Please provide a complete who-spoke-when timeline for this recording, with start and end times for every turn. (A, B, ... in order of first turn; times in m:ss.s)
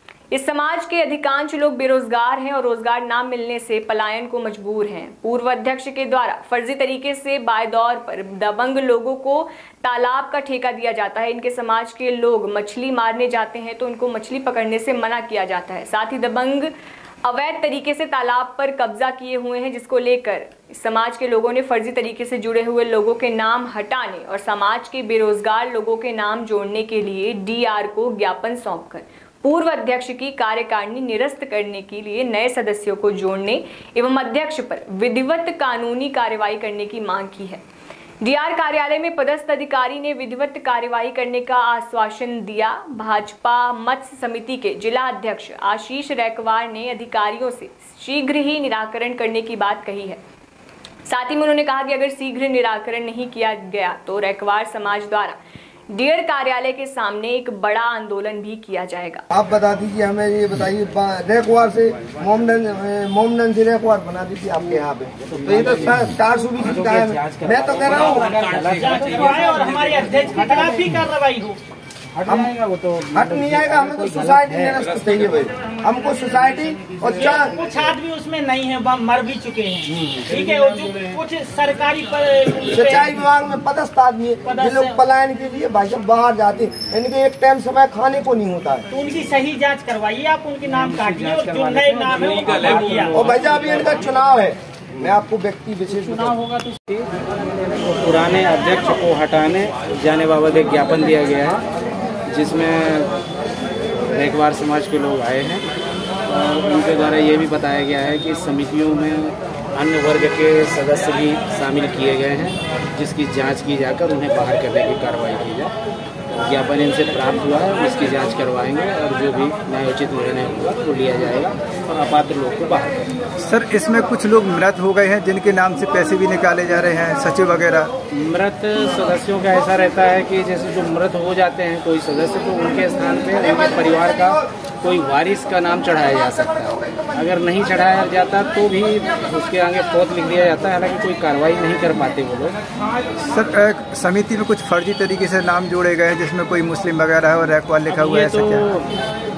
0:00.3-0:16.7 A
0:17.2-0:37.6 A
0:38.2-0:50.2 A
0:51.1-0:59.2 A
0:59.3-1:08.5 B
1:05.2-1:10.9 C
1:08.6-1:11.6 D
1:12.1-1:14.8 C
1:12.2-1:12.5 B
1:13.1-1:17.6 B
1:17.2-1:23.1 D
1:22.7-1:28.9 B
1:24.4-1:25.0 D
1:28.9-1:33.3 D
1:31.0-1:33.4 C
1:33.1-1:36.4 B
1:36.2-1:36.8 D
1:37.8-1:41.6 C
1:42.3-1:43.1 C
1:44.1-1:45.7 C
1:46.3-1:55.7 C
1:56.3-2:03.1 C
2:03.4-2:07.9 E
2:08.1-2:22.6 C
2:23.2-2:28.6 E
2:28.0-2:28.9 C